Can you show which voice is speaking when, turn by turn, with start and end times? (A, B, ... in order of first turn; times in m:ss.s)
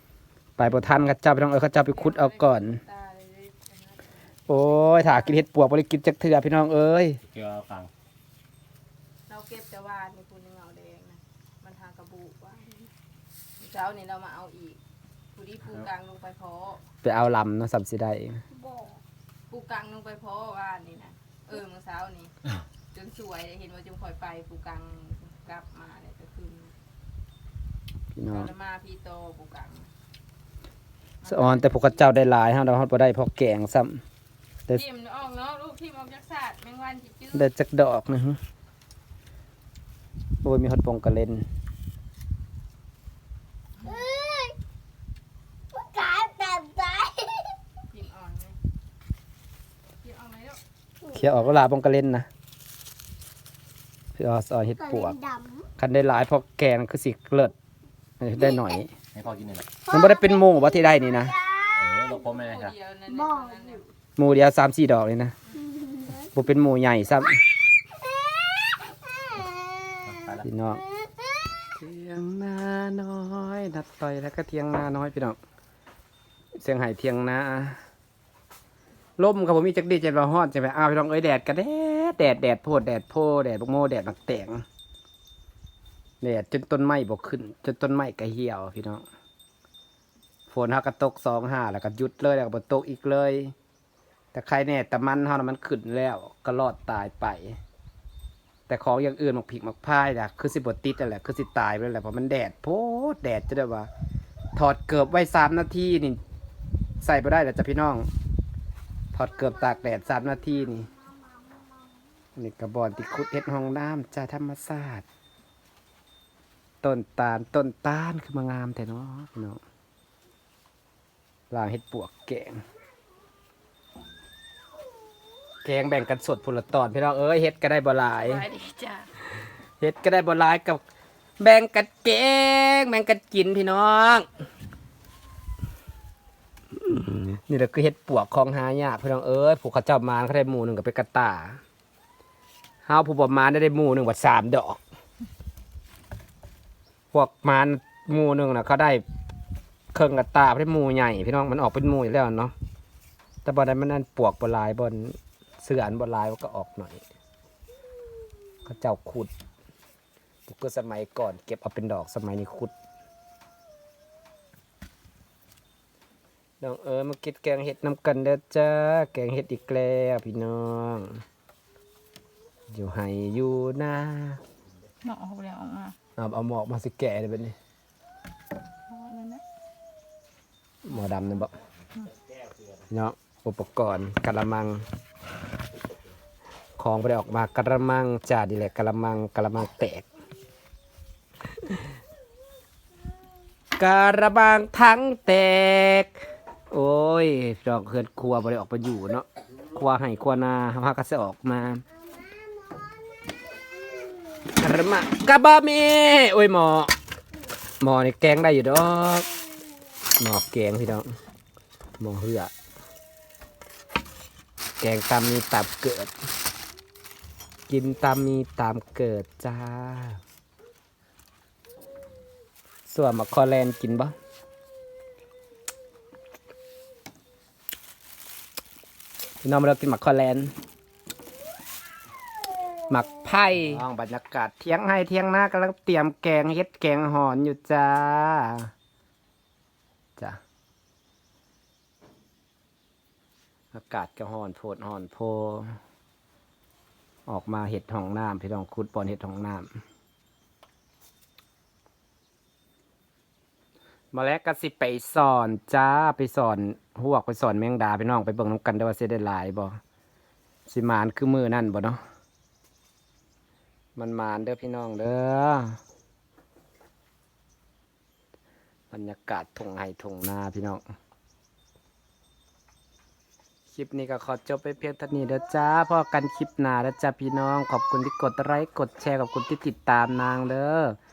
0:00.6-0:02.8 A
0:01.9-0:05.4 B
0:04.5-0:07.2 A
0:07.3-0:07.9 C
0:09.3-0:12.9 B
0:13.6-0:14.8 B
0:15.3-0:16.8 B
0:17.0-0:18.4 A
0:19.5-0:22.3 B
0:22.9-0:26.7 B
0:28.2-0:28.5 A
0:28.3-0:29.9 B
0:31.2-0:32.0 B
0:31.3-0:34.0 A
0:34.7-0:37.5 B
0:37.3-0:38.4 A
0:40.4-0:41.4 A
0:43.8-0:44.6 D
0:45.7-0:47.6 D
0:47.9-0:48.6 B
0:50.0-0:50.6 B
0:51.1-0:52.3 A
0:54.2-0:55.2 A
0:55.2-0:55.6 D
0:55.8-0:57.5 A
0:58.2-0:58.9 A
0:59.2-0:59.7 C
0:59.8-1:01.4 A
1:01.8-1:02.7 C
1:02.2-1:03.9 B
1:03.3-1:03.6 D
1:04.2-1:05.3 A
1:06.3-1:07.4 A
1:09.3-1:10.0 D
1:10.1-1:10.4 C
1:10.4-1:10.8 A
1:11.8-1:15.4 A
1:16.6-1:17.8 A
1:19.2-1:24.6 A
1:26.2-1:29.0 A
1:30.5-1:33.5 A
1:34.3-1:37.6 A
1:38.7-1:43.9 A
1:44.6-1:46.2 A
1:47.0-1:48.1 A
1:49.1-1:50.9 A
1:52.4-1:55.0 A
1:56.8-1:59.6 A
2:01.5-2:02.6 A
2:05.6-2:08.5 A
2:08.2-2:09.1 B
2:09.8-2:10.8 A
2:11.4-2:14.3 A
2:16.8-2:21.6 A
2:22.9-2:24.8 A
2:27.1-2:29.0 A
2:29.9-2:32.5 A
2:33.4-2:37.0 A
2:38.6-2:39.3 A
2:40.5-2:42.7 A
2:46.6-2:51.2 A
2:52.7-2:54.4 A
2:55.0-2:56.0 B
2:56.2-2:57.6 A
2:58.9-2:59.4 B
3:00.8-3:01.5 A
3:02.9-3:04.9 A
3:06.8-3:10.1 A
3:13.8-3:16.2 A
3:16.7-3:21.8 A
3:22.2-3:22.5 D
3:24.6-3:26.9 A
3:27.8-3:29.3 A
3:30.2-3:31.1 A
3:32.0-3:32.5 A
3:34.8-3:36.1 A
3:37.7-3:40.2 A
3:42.9-3:44.1 A
3:49.4-3:50.5 A
3:52.9-3:58.7 A
4:03.7-4:05.8 A
4:07.3-4:09.7 A
4:14.1-4:19.8 A
4:20.7-4:22.0 A
4:24.0-4:25.8 A
4:28.9-4:30.8 A
4:33.7-4:41.0 A